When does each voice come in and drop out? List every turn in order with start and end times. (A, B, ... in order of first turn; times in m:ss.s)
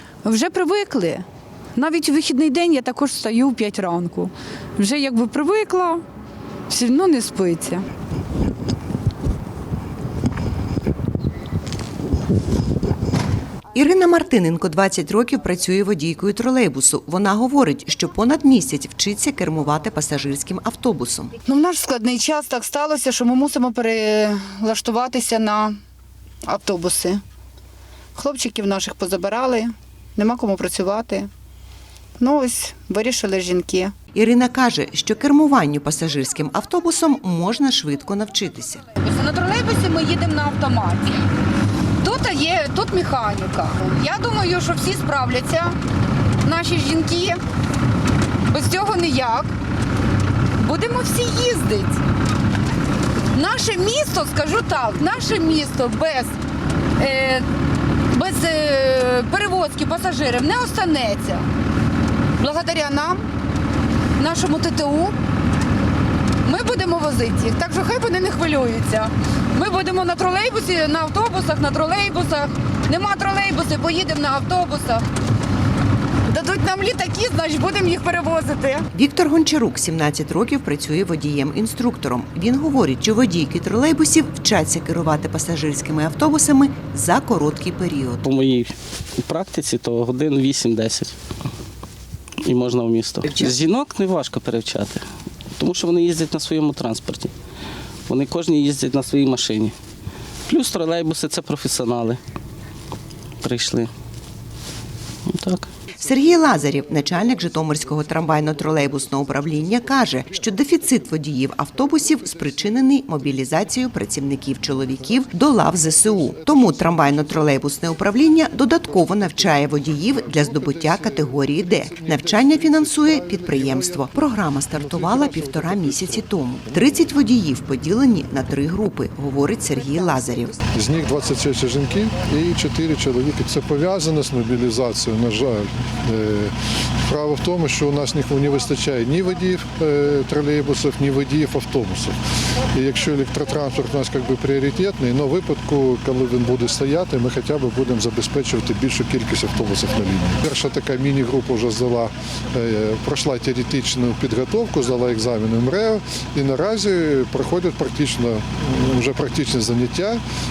0:00.2-0:01.2 A
0:01.8-0:06.0 A
0:06.7-0:07.8 A
0:13.7-0:21.3 B
0:21.4-0:25.8 A
0:26.4-0:27.2 A
0:28.2-0:31.3 A
0:32.2-0:33.9 A
0:34.1-0:38.8 B
0:39.0-0:41.2 A
0:42.0-0:45.7 A
0:46.4-0:47.4 A
0:48.5-0:49.5 A
0:50.6-0:52.0 A
0:53.3-0:56.4 A
0:57.0-0:57.4 A
0:58.1-1:01.4 A
1:02.4-1:03.2 A
1:04.2-1:05.2 A
1:06.4-1:15.0 A
1:16.3-1:18.9 A
1:18.9-1:28.3 B
1:28.2-1:31.1 C
1:32.4-1:35.0 C
1:33.3-1:33.5 B
1:35.6-1:37.3 C
1:38.1-1:39.7 C
1:40.5-1:42.2 C
1:43.4-1:43.9 C
1:45.3-1:45.7 C
1:46.0-2:10.6 B
1:56.5-1:57.2 D
1:59.0-1:59.6 D
2:00.3-2:04.2 D
2:04.7-2:06.2 D
2:10.7-2:16.5 D
2:17.1-2:22.2 D
2:22.7-2:40.2 D